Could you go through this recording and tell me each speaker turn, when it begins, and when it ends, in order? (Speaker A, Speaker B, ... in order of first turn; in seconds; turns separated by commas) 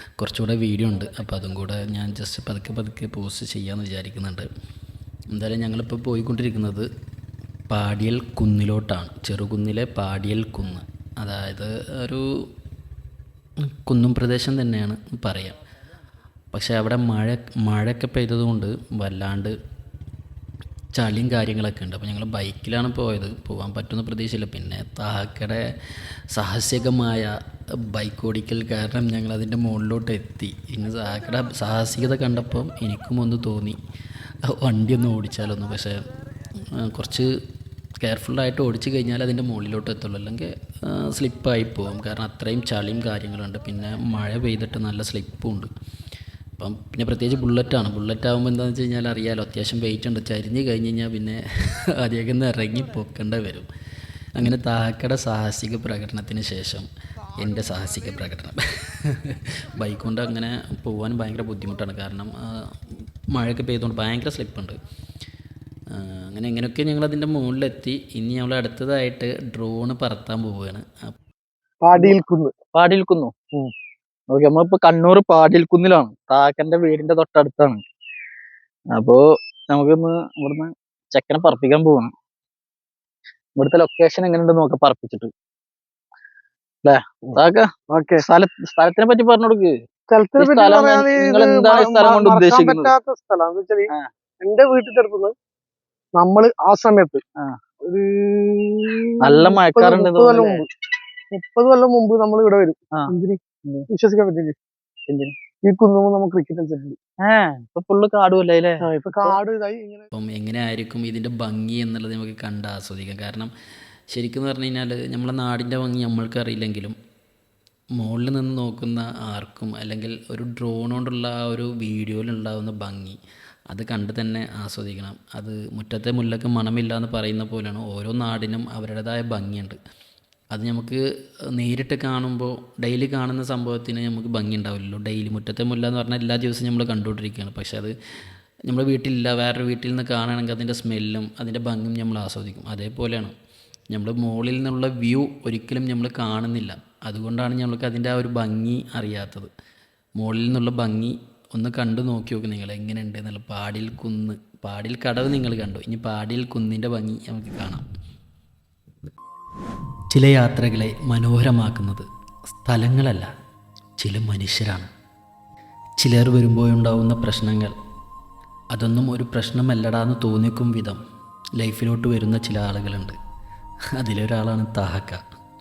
Speaker A: 0.2-4.5, Speaker A: 5.3-6.9, Speaker A: 7.7-12.3, Speaker A: 13.7-15.6, Speaker A: 16.5-19.6, Speaker A: 21.0-25.6, Speaker A: 26.3-33.8, Speaker A: 34.5-36.1, Speaker A: 36.6-37.4, Speaker A: 38.0-45.7, Speaker A: 46.6-53.7, Speaker A: 54.4-62.7, Speaker A: 63.3-64.8, Speaker A: 65.9-71.1, Speaker B: 71.8-72.5, Speaker C: 72.7-73.3, Speaker C: 74.3-77.8, Speaker C: 78.9-79.2, Speaker C: 79.7-82.1, Speaker C: 83.6-85.3, Speaker C: 86.8-87.7, Speaker B: 87.9-88.2, Speaker C: 88.2-89.7, Speaker B: 90.1-95.3, Speaker C: 90.4-92.9, Speaker B: 96.2-97.2, Speaker B: 97.8-100.7, Speaker C: 99.2-100.6, Speaker B: 101.3-103.4, Speaker B: 103.9-104.6, Speaker C: 105.1-105.3, Speaker B: 105.7-107.0, Speaker C: 107.2-109.4, Speaker B: 108.8-110.1, Speaker A: 110.1-113.5, Speaker A: 114.1-117.0, Speaker A: 118.0-123.2, Speaker A: 123.7-129.8, Speaker A: 130.5-131.0, Speaker A: 131.5-137.9, Speaker A: 138.7-143.3, Speaker A: 143.9-149.5, Speaker A: 150.2-157.8, Speaker A: 160.1-163.3, Speaker A: 164.0-164.9, Speaker A: 166.0-167.8, Speaker A: 168.7-171.0, Speaker A: 171.6-173.2, Speaker A: 174.0-175.2